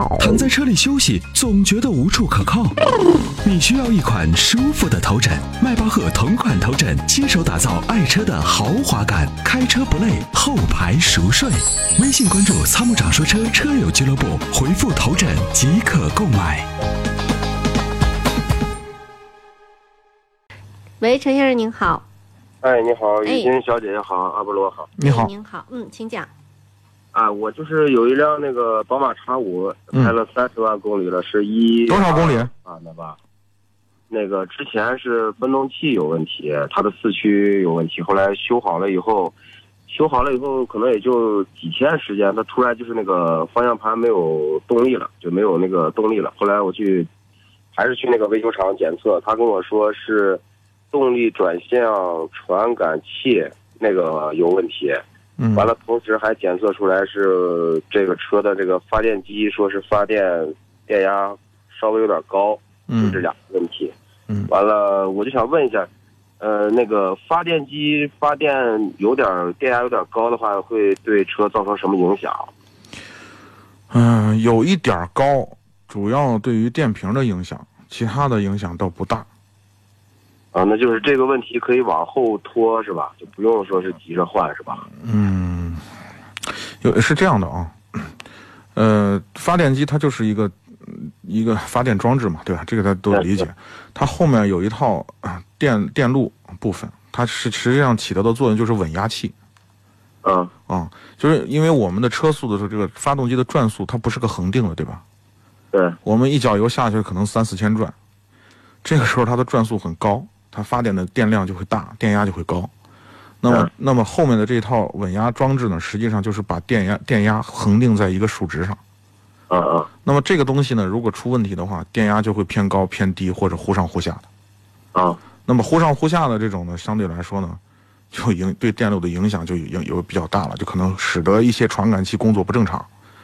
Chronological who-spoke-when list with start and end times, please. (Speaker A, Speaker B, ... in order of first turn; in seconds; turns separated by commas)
Speaker A: 0.2-2.8, Speaker A: 3.4-16.7, Speaker B: 21.0-22.0, Speaker C: 22.6-24.9, Speaker D: 25.0-25.3, Speaker B: 25.0-26.3, Speaker C: 27.1-33.2, Speaker D: 31.9-32.5, Speaker C: 34.1-39.4, Speaker C: 39.9-47.1, Speaker C: 47.7-55.0, Speaker D: 55.4-55.7, Speaker C: 55.5-63.9, Speaker D: 62.9-63.3, Speaker C: 64.5-65.9, Speaker C: 66.4-72.5, Speaker D: 73.9-79.3, Speaker C: 80.5-84.9, Speaker D: 85.0-85.8, Speaker D: 86.8-88.1, Speaker D: 88.7-99.3, Speaker C: 93.1-93.4, Speaker C: 100.2-100.5, Speaker D: 100.7-105.0, Speaker C: 105.7-106.0, Speaker D: 106.0-107.9, Speaker D: 108.8-112.7, Speaker D: 113.4-118.8, Speaker C: 119.5-119.9, Speaker D: 120.0-124.3, Speaker C: 124.9-125.2, Speaker D: 125.4-127.6, Speaker D: 128.1-132.9